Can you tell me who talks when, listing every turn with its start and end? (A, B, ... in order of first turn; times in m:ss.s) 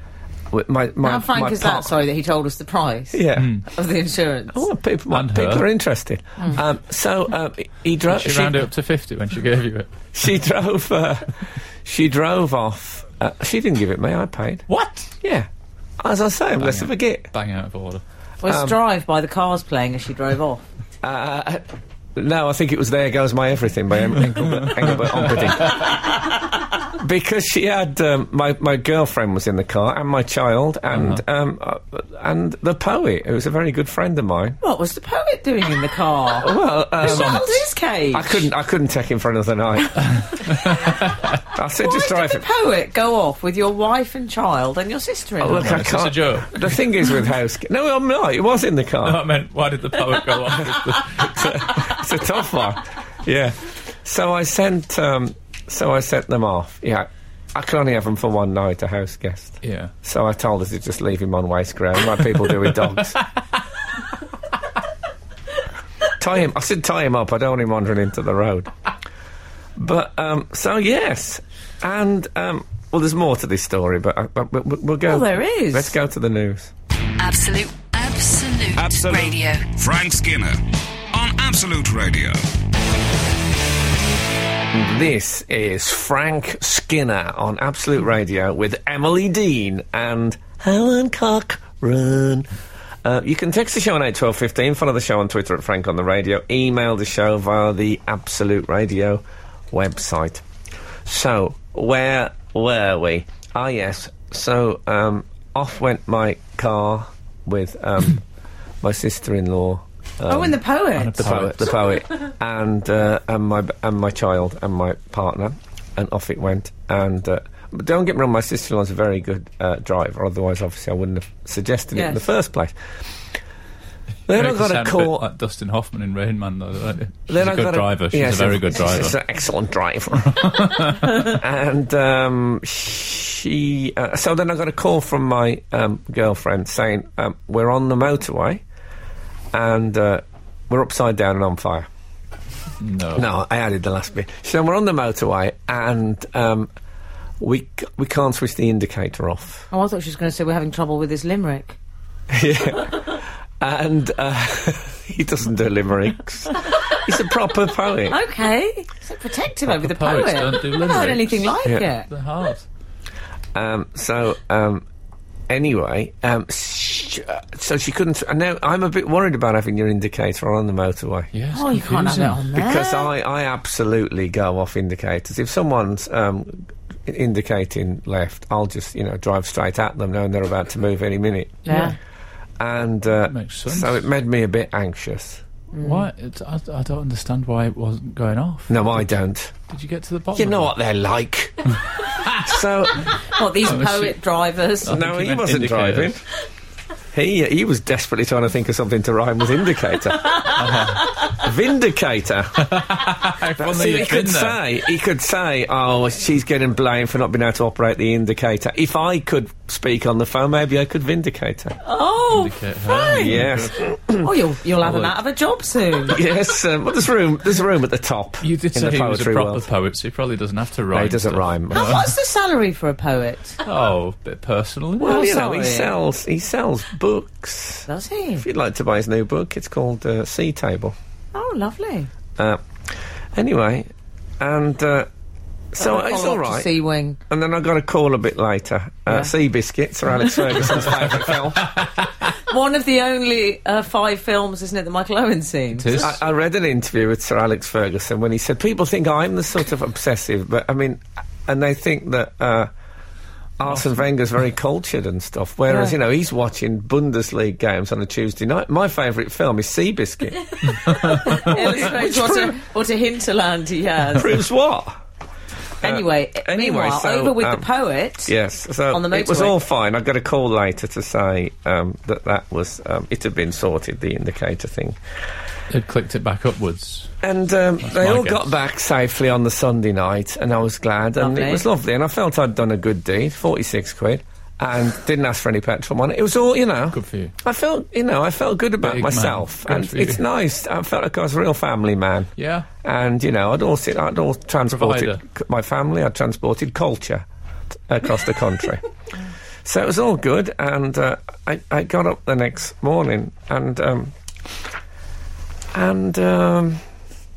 0:00.5-0:01.9 A
0:01.0-0:04.6 B
0:03.1-0:03.5 A
0:03.4-0:03.6 C
0:04.5-0:08.6 A
0:05.1-0:05.7 C
0:08.1-0:10.1 C
0:10.1-0:14.6 A
0:14.7-0:15.1 C
0:15.2-0:15.5 A
0:16.0-0:17.3 A
0:16.6-0:18.0 C
0:18.4-0:20.6 B
0:18.4-0:18.8 A
0:21.0-0:26.3 A
0:25.3-0:25.8 C
0:26.9-0:34.6 A
0:30.9-0:31.2 C
0:34.6-0:38.5 B
0:36.4-0:37.4 A
0:37.0-0:37.6 C
0:38.1-0:40.3 A
0:40.2-0:41.2 C
0:41.5-0:42.4 A
0:41.8-0:45.9 B
0:45.4-0:49.2 A
0:45.5-0:46.8 C
0:49.0-0:51.7 C
0:50.7-1:03.2 A
0:59.6-0:59.9 C
1:06.2-1:08.7 A
1:09.8-1:16.7 A
1:15.0-1:16.0 B
1:17.2-1:19.7 D
1:18.8-1:20.6 E
1:21.1-1:22.4 E
1:24.7-1:32.5 A
1:33.0-1:40.4 A
1:41.0-1:48.2 A
1:48.8-1:50.6 A
1:50.3-1:51.4 B
1:51.0-1:51.9 C
1:51.2-2:02.7 A
2:01.9-2:02.2 B
2:04.3-2:05.2 A
2:04.3-2:09.2 C
2:07.3-2:18.6 A
2:10.2-2:11.4 C
2:19.5-2:21.9 A
2:22.8-2:23.3 C
2:23.1-2:26.7 A
2:27.4-2:29.7 A
2:29.7-2:31.8 B
2:32.3-2:38.2 A
2:38.1-2:42.1 B
2:39.7-2:42.6 C
2:43.5-2:44.8 A
2:45.5-2:51.3 A
2:51.3-2:52.5 C
2:51.5-2:53.1 B
2:52.5-3:01.9 A
3:01.6-3:02.0 B
3:02.6-3:05.4 A
3:03.3-3:04.0 C
3:05.7-3:06.1 B
3:05.8-3:09.1 C
3:08.7-3:09.5 A
3:09.7-3:10.7 C
3:10.3-3:13.1 A
3:13.3-3:15.0 B
3:13.6-3:14.2 C
3:14.8-3:16.2 C
3:14.8-3:16.2 A
3:17.1-3:22.8 A
3:20.5-3:21.2 C
3:22.6-3:24.6 C
3:23.6-3:31.8 A
3:31.8-3:33.4 B
3:32.3-3:33.8 C
3:33.1-3:34.3 A
3:34.2-3:36.2 B
3:34.8-3:35.1 C
3:36.1-3:39.6 A
3:38.4-3:42.1 C
3:40.9-3:42.0 A
3:41.7-3:43.6 B
3:43.6-3:45.2 C
3:45.0-3:47.9 A
3:45.0-3:45.9 B
3:47.9-3:48.4 B
3:48.4-3:50.9 A
3:51.3-3:52.1 B
3:52.4-3:52.6 A
3:53.3-3:53.9 A
3:54.4-3:55.1 A
3:55.7-3:56.7 A
3:55.8-3:57.2 B
3:57.3-4:01.8 A
4:02.3-4:06.1 B
4:05.7-4:06.2 C
4:06.0-4:12.7 A
4:13.6-4:22.5 A
4:15.7-4:16.0 B
4:20.8-4:24.4 B
4:20.9-4:21.5 C
4:24.2-4:25.0 A
4:25.8-4:27.6 A
4:25.8-4:28.3 B
4:28.2-4:35.0 A
4:28.9-4:29.6 B
4:35.7-4:37.1 C
4:37.2-4:52.3 A
4:37.8-4:38.5 C
4:41.2-4:41.6 B
4:46.9-4:47.3 C
4:48.8-4:50.2 C
4:52.4-4:52.7 C
4:52.8-4:57.2 A
4:54.7-4:55.2 C
4:57.9-4:58.8 A
4:59.6-5:04.1 A
5:05.7-5:06.8 A